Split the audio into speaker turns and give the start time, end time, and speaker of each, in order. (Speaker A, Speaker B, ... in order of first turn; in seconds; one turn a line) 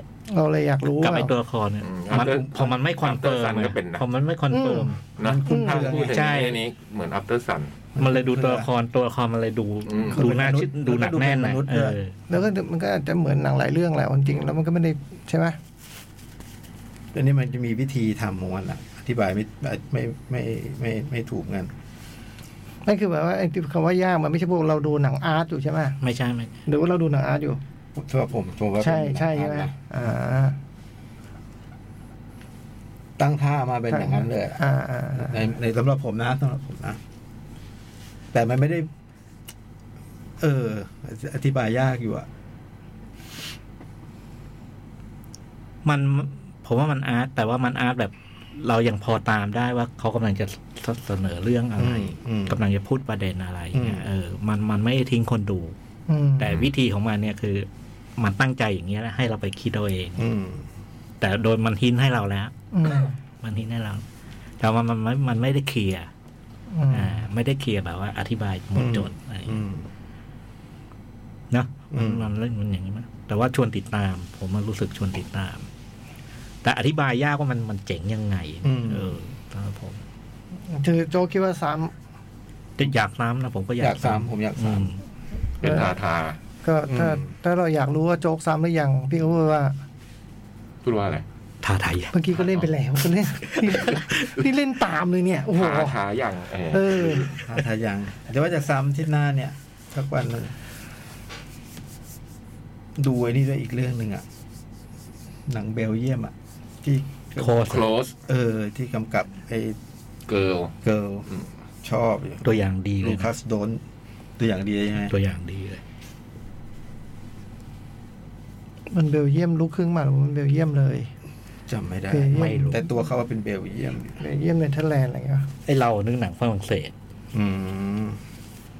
Speaker A: 0.3-1.3
Speaker B: 1.0-5.0
Speaker C: 1.8-4.0
Speaker A: 4.5-4.9
Speaker C: 5.2-7.8
Speaker D: 5.2-6.2
Speaker A: 5.5-5.9
Speaker B: 5.9-6.6
Speaker D: 8.0-8.7
Speaker B: 8.0-12.2
Speaker C: 9.9-10.2
Speaker D: 10.1-12.0
Speaker A: 12.3-15.6
Speaker D: 17.1-21.7
Speaker A: 22.9-26.0
Speaker B: 26.0-26.6
Speaker A: 26.7-27.6
Speaker D: 27.9-29.7
Speaker A: 28.8-30.6
Speaker D: 33.2-34.6
Speaker A: 33.9-35.5
Speaker D: 35.1-37.0
Speaker D: 38.3-38.9
Speaker D: 40.4-42.3
Speaker B: 45.9-55.8
Speaker D: 51.8-52.6
Speaker D: 53.7-54.0
Speaker A: 56.1-56.5
Speaker B: 56.4-60.2
Speaker D: 60.2-60.7
Speaker B: 61.2-62.5
Speaker A: 62.7-63.2
Speaker B: 63.4-64.0
Speaker B: 64.6-66.1
Speaker A: 66.7-67.2
Speaker B: 66.9-69.6
Speaker D: 68.8-69.9
Speaker B: 71.5-75.7
Speaker D: 71.9-72.3
Speaker B: 76.6-80.0
Speaker D: 78.6-79.2
Speaker A: 80.7-81.9
Speaker B: 82.8-85.0
Speaker D: 83.8-84.9
Speaker C: 85.6-86.4
Speaker A: 85.6-85.9
Speaker A: 86.6-89.8
Speaker D: 86.9-87.2
Speaker C: 90.8-91.2
Speaker B: 91.6-92.2
Speaker A: 92.1-96.0
Speaker C: 92.4-92.7
Speaker B: 93.5-94.3
Speaker C: 95.5-97.4
Speaker A: 96.7-97.3
Speaker D: 97.3-100.5
Speaker D: 103.0-104.2
Speaker D: 105.5-107.7
Speaker B: 107.4-107.9
Speaker C: 107.7-108.2
Speaker D: 108.3-109.8
Speaker C: 110.3-110.7
Speaker D: 110.8-111.3
Speaker D: 111.8-113.8
Speaker B: 112.4-113.3
Speaker D: 114.4-115.1
Speaker B: 115.1-115.8
Speaker A: 118.9-121.1
Speaker D: 121.7-124.2
Speaker A: 122.1-122.9
Speaker B: 122.3-122.8
Speaker A: 124.2-125.5
Speaker B: 125.7-126.9
Speaker D: 127.3-128.2